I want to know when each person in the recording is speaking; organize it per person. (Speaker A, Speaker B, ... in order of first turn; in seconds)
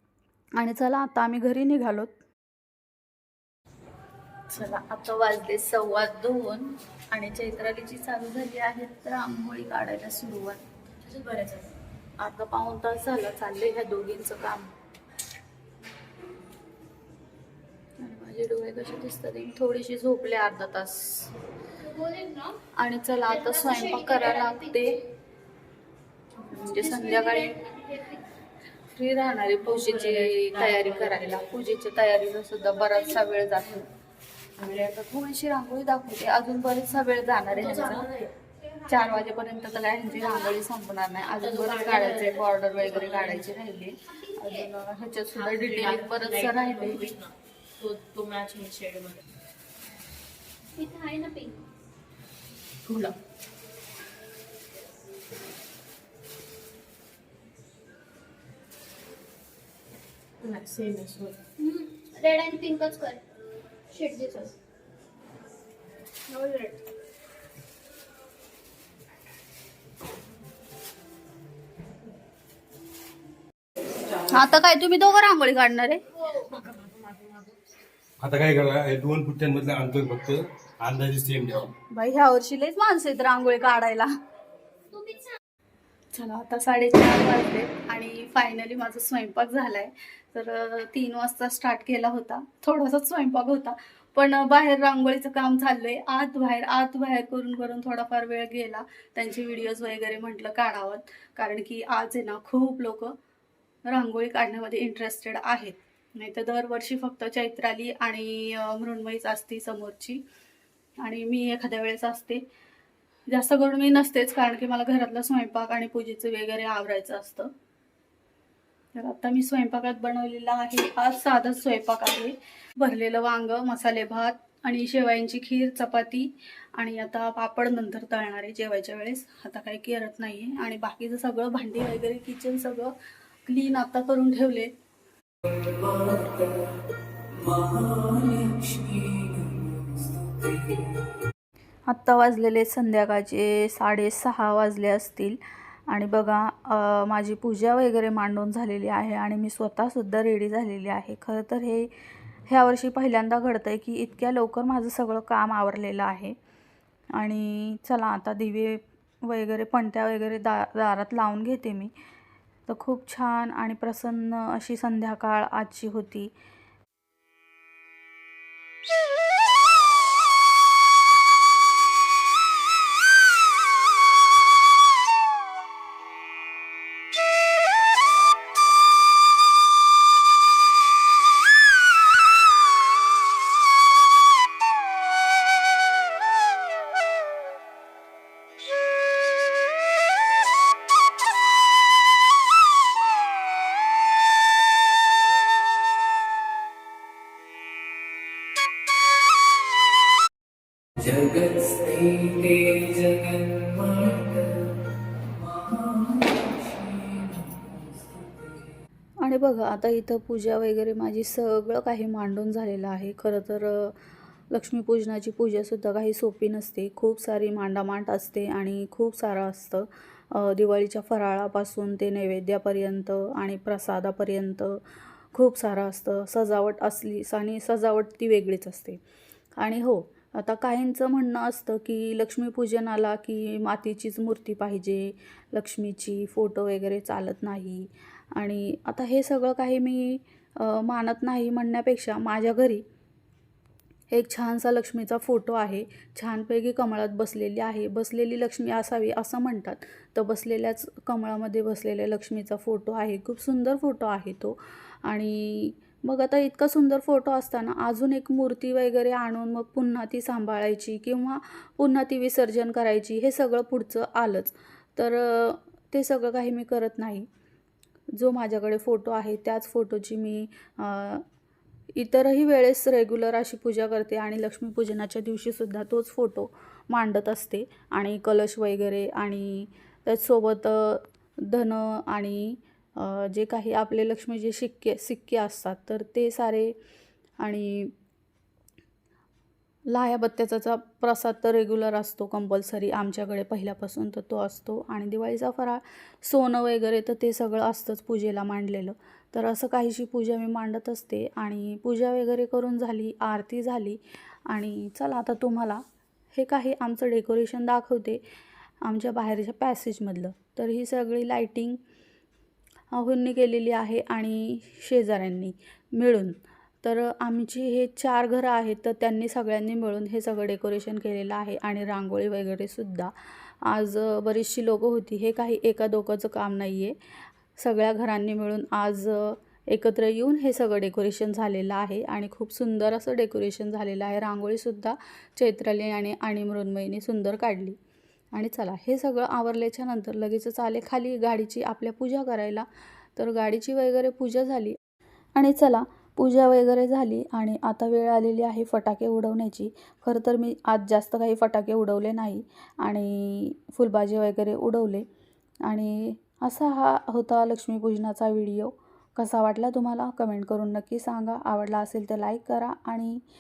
Speaker A: 0.6-2.2, 4.5-10.6, 12.2-14.7, 18.0-21.3, 22.8-25.1, 26.5-27.8, 28.9-33.9, 34.6-38.1, 38.8-47.1, 74.2-76.2, 81.9-84.1, 86.1-103.2, 103.8-110.2, 111.0-112.4, 113.3-117.5, 118.9-132.9, 133.4-134.7, 141.9-151.9, 152.5-156.3, 157.2-161.9, 162.7-166.3, 209.2-214.0, 214.5-224.8, 225.3-229.0, 229.6-242.8, 244.1-267.3, 268.1-271.2, 271.9-286.7, 287.4-287.9, 289.9-308.2, 308.8-311.8, 312.9-327.0, 327.6-337.8, 338.3-344.8, 345.3-355.1, 355.6-363.2
Speaker B: 11.1-11.7, 29.7-31.4, 37.6-38.3, 41.4-43.4, 45.4-49.2, 52.8-53.1, 60.4-61.4
Speaker C: 21.9-22.6, 23.6-24.2, 27.9-28.2, 50.7-51.6, 61.6-63.2, 63.9-64.5, 66.3-66.8
Speaker D: 78.2-81.7
Speaker E: 135.5-136.8, 137.3-141.1, 201.0-208.7